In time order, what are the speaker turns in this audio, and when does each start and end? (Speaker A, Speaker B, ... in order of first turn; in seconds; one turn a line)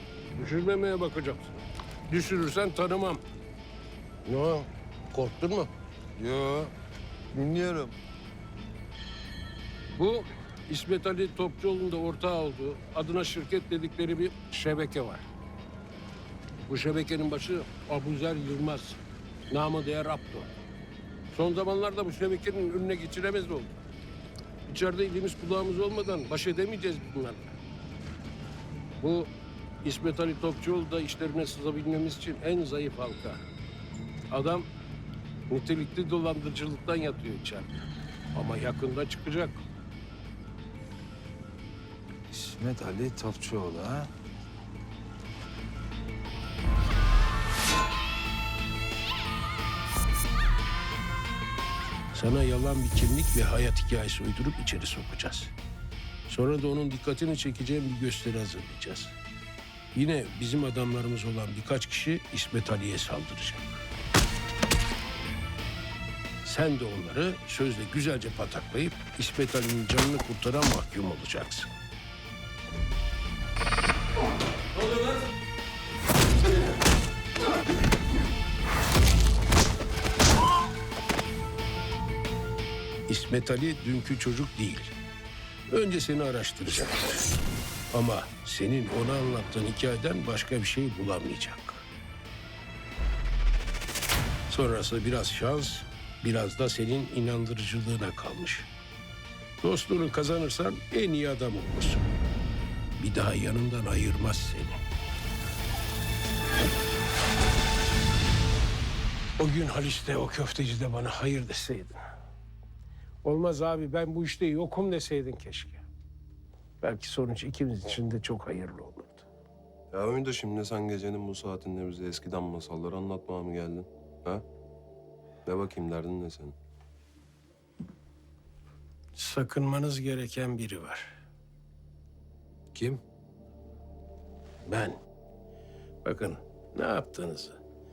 Speaker A: 0.3-3.2
Speaker A: 4.2-5.7
Speaker B: 6.2-6.7
Speaker B: 7.3-8.0
Speaker A: 10.0-15.3
Speaker A: 16.7-20.5
Speaker A: 21.3-23.8
Speaker A: 24.7-27.6
Speaker A: 29.0-29.3
Speaker A: 29.8-33.4
Speaker A: 34.3-34.7
Speaker A: 35.5-37.7
Speaker A: 38.3-39.6
Speaker B: 42.3-44.1
Speaker A: 52.1-55.5
Speaker A: 56.3-59.1
Speaker A: 59.9-63.8
Speaker A: 66.4-71.7
Speaker A: 83.1-84.9
Speaker A: 85.7-87.2
Speaker A: 87.9-91.8
Speaker A: 94.5-98.7
Speaker A: 99.6-102.1
Speaker A: 103.0-104.8
Speaker A: 109.4-112.0
Speaker A: 113.2-115.8
Speaker A: 116.8-119.2
Speaker C: 119.9-124.4
Speaker C: 125.5-126.5
Speaker A: 129.2-131.2
Speaker B: 132.7-133.0
Speaker A: 134.6-135.0
Speaker A: 136.0-137.6